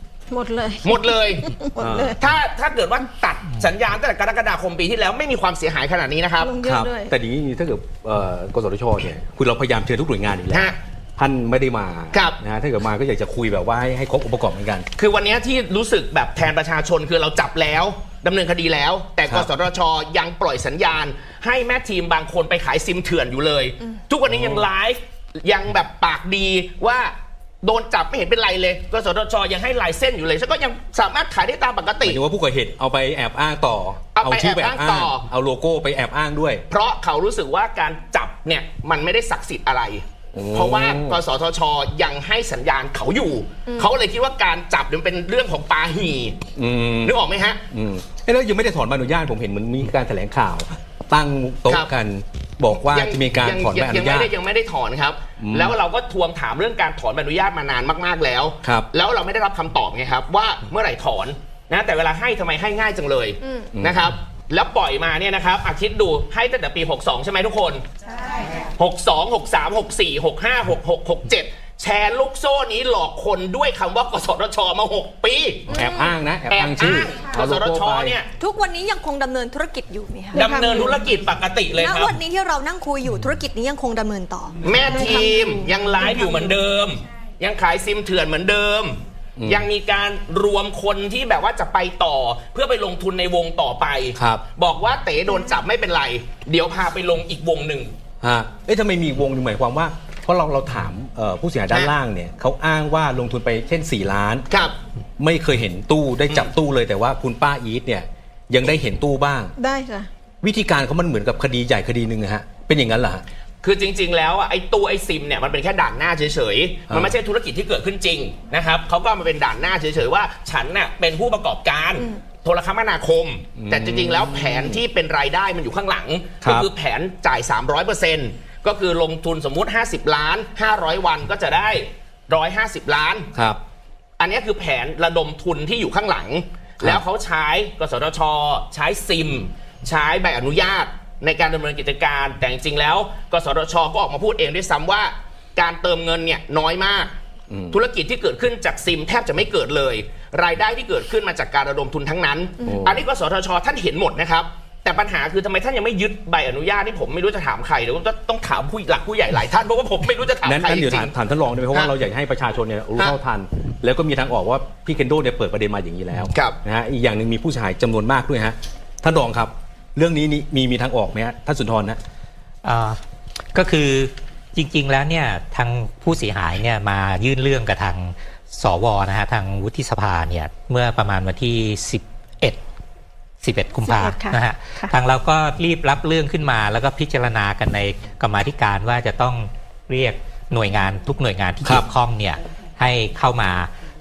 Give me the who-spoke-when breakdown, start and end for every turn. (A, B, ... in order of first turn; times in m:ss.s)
0:00.3-0:02.2 A
0:00.8-0:01.6 B
0:01.8-0:02.2 C
0:02.2-0:06.5 B
0:06.4-0:07.1 A
0:06.6-0:14.9 C
0:10.5-0:10.8 B
0:12.1-0:12.4 B
0:15.0-0:32.2 B
0:24.3-0:24.6 C
0:32.0-0:36.6 C
0:34.1-0:35.2 B
0:36.7-0:46.5 B
0:40.3-0:41.2 C
0:46.5-0:47.2 C
0:47.0-0:47.6 B
0:47.7-0:54.3 C
0:52.8-1:07.8 B
0:55.4-0:55.8 C
1:03.7-1:04.1 C
1:08.7-1:15.7 B
1:15.7-1:18.2 C
1:15.7-1:16.1 D
1:16.5-1:18.3 B
1:18.4-1:20.9 D
1:20.3-1:21.0 A
1:20.3-1:22.2 B
1:21.8-1:25.0 D
1:24.6-1:37.9 B
1:24.8-1:26.4 A
1:29.4-1:29.7 C
1:34.2-1:34.4 C
1:38.2-1:44.4 C
1:44.5-1:44.8 B
1:45.2-1:49.5 C
1:49.6-1:50.1 A
1:50.4-1:53.2 C
1:53.6-2:13.3 B
1:56.9-1:57.1 C
2:03.6-2:04.8 C
2:06.4-2:06.7 C
2:13.3-2:13.6 C
2:14.2-2:27.1 B
2:27.5-2:27.8 C
2:27.7-2:41.1 B
2:32.6-2:33.0 C
2:40.4-2:52.0 C
2:46.3-2:46.6 B
2:52.6-2:53.0 E
2:53.5-3:02.6 E
3:03.4-3:13.7 E
3:03.8-3:04.3 D